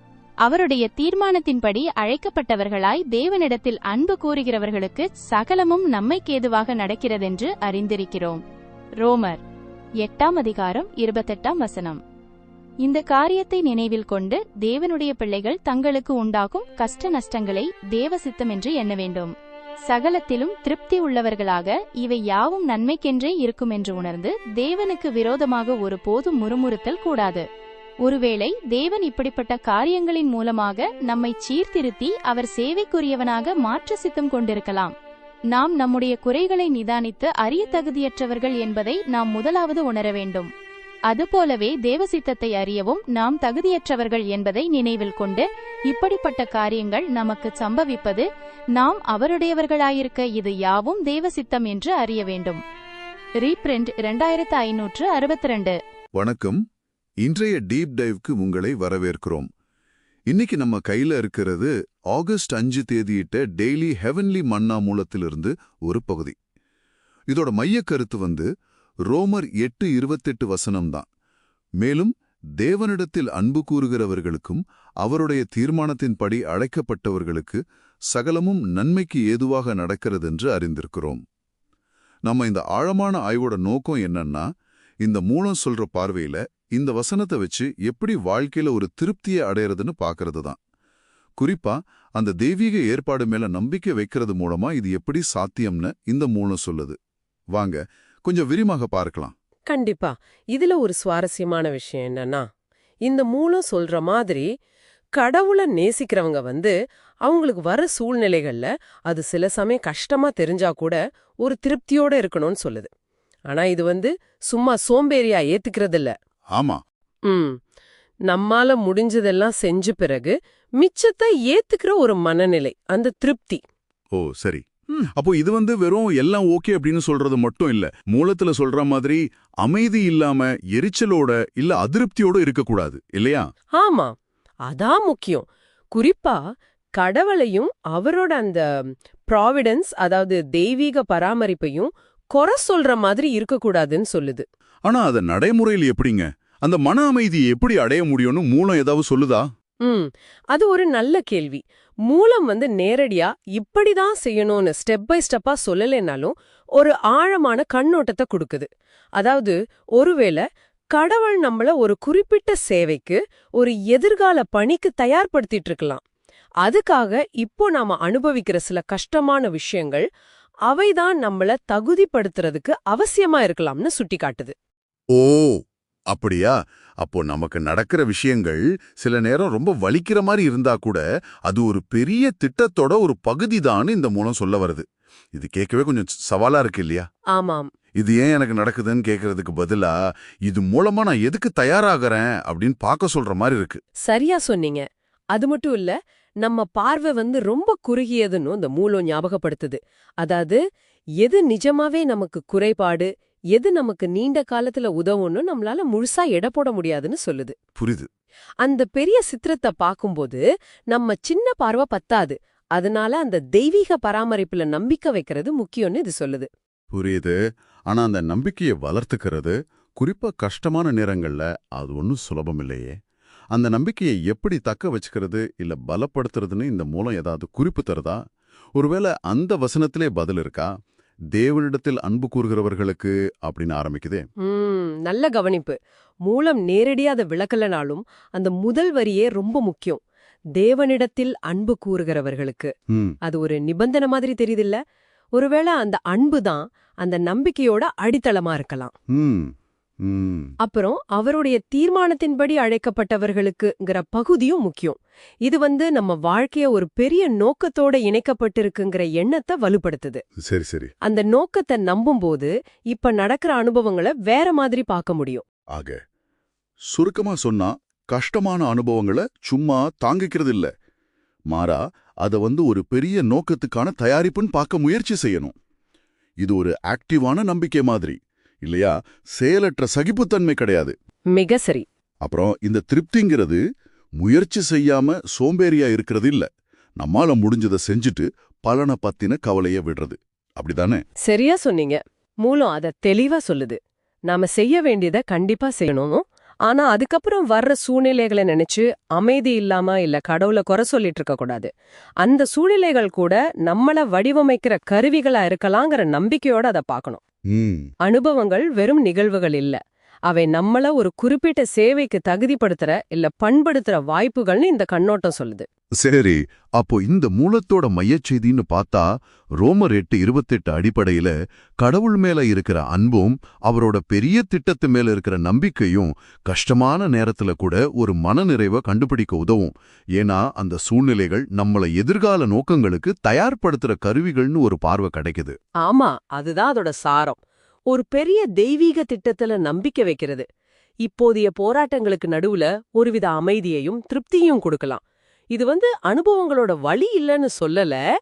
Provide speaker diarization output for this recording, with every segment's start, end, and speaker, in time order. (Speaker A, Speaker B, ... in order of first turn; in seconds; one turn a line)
Speaker A: 0.4-8.4
Speaker A: 9.0-9.4
Speaker A: 10.0-12.0
Speaker A: 12.8-19.3
Speaker A: 19.9-27.4
Speaker A: 28.0-34.9
Speaker A: 35.5-40.5
Speaker A: 41.1-52.6
Speaker A: 53.4-55.8
Speaker B: 56.1-56.6
Speaker B: 57.2-59.5
Speaker B: 60.3-66.3
Speaker B: 67.3-68.5
Speaker B: 69.1-71.1
Speaker B: 71.8-81.2
Speaker B: 82.2-84.4
Speaker B: 85.0-90.6
Speaker B: 91.4-97.0
Speaker B: 97.5-99.3
Speaker C: 99.7-102.5
Speaker C: 103.0-104.5
Speaker C: 105.1-112.9
Speaker C: 113.5-116.1
Speaker B: 116.5-116.8
Speaker C: 117.2-117.5
Speaker C: 118.3-123.6
Speaker B: 124.1-133.4
Speaker C: 133.8-134.1
Speaker C: 134.7-136.4
Speaker C: 137.0-138.6
Speaker C: 139.3-144.4
Speaker B: 144.8-149.4
Speaker C: 149.8-166.0
Speaker C: 166.6-170.0
Speaker C: 170.7-174.5
Speaker B: 175.1-175.6
Speaker B: 176.1-187.1
Speaker C: 187.3-187.7
Speaker B: 188.0-189.9
Speaker B: 190.4-193.8
Speaker C: 194.0-200.6
Speaker C: 201.2-207.5
Speaker B: 207.8-208.1
Speaker C: 208.6-216.5
Speaker B: 216.9-217.3
Speaker B: 217.9-222.9
Speaker B: 223.5-228.2
Speaker B: 228.8-230.7
Speaker B: 231.3-234.2
Speaker C: 234.4-240.0
Speaker C: 240.6-244.8
Speaker C: 245.3-248.9
Speaker B: 249.1-250.5
Speaker C: 250.6-260.2
Speaker B: 260.4-260.9
Speaker C: 261.0-265.4
Speaker B: 265.7-266.0
Speaker B: 266.9-270.7
Speaker B: 271.5-275.5
Speaker B: 276.4-280.9
Speaker C: 281.3-281.8
Speaker B: 282.2-283.6
Speaker B: 284.2-286.5
Speaker B: 287.0-291.0
Speaker C: 291.2-293.8
Speaker C: 294.3-301.7
Speaker C: 302.2-307.2
Speaker B: 307.5-307.9
Speaker C: 308.0-315.6
Speaker B: 316.0-335.6
Speaker C: 335.8-340.4
Speaker C: 341.0-345.0
Speaker C: 345.5-348.0